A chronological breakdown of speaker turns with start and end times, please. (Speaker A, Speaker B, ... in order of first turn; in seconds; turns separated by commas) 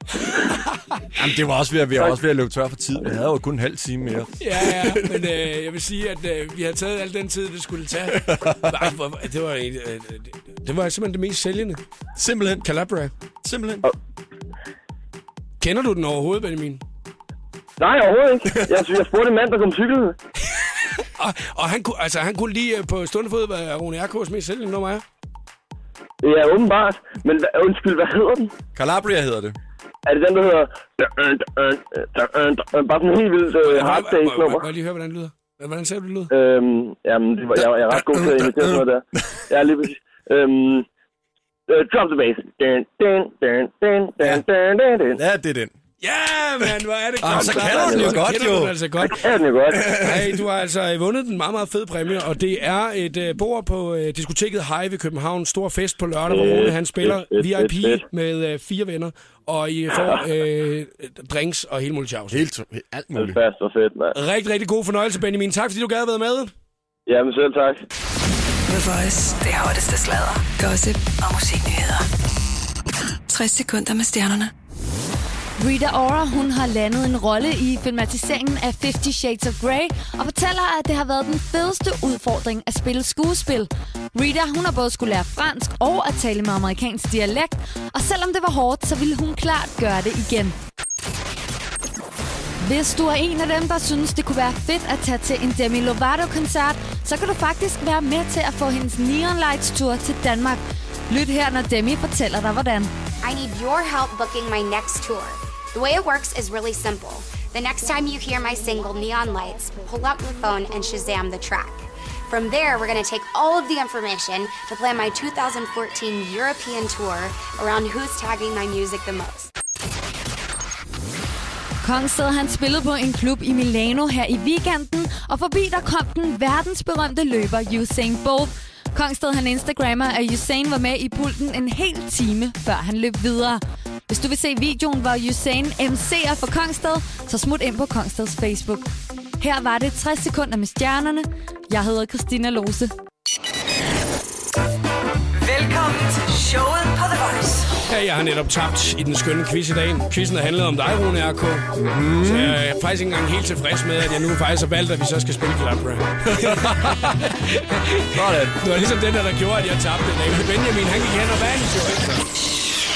Speaker A: 0.2-1.1, Speaker B: 1.1-5.4, Speaker A: 4.4-11.8, Speaker B: 8.1-8.9, Speaker B: 12.2-12.7, Speaker A: 12.6-13.1, Speaker B: 13.4-13.9, Speaker A: 15.6-16.8, Speaker C: 17.8-20.2, Speaker A: 20.6-25.0, Speaker C: 26.2-28.5, Speaker B: 28.8-29.6, Speaker C: 30.1-34.7, Speaker A: 33.6-36.3, Speaker C: 36.3-40.9, Speaker B: 37.6-38.9, Speaker C: 41.7-45.2, Speaker B: 45.1-45.7, Speaker A: 46.0-49.2, Speaker B: 47.2-48.8, Speaker C: 47.3-48.2, Speaker C: 49.1-50.0, Speaker B: 49.8-50.4, Speaker A: 49.9-62.4, Speaker C: 56.3-58.0, Speaker B: 62.3-63.4, Speaker C: 63.2-64.2, Speaker A: 64.1-66.5, Speaker C: 67.1-67.8, Speaker D: 68.7-72.1, Speaker D: 73.3-74.5, Speaker E: 75.6-90.5, Speaker E: 92.6-102.9, Speaker F: 103.2-119.5, Speaker E: 121.8-138.8, Speaker E: 139.4-142.9, Speaker D: 145.4-147.7, Speaker A: 147.9-162.3, Speaker B: 151.8-152.7, Speaker B: 156.2-157.3, Speaker B: 158.1-158.6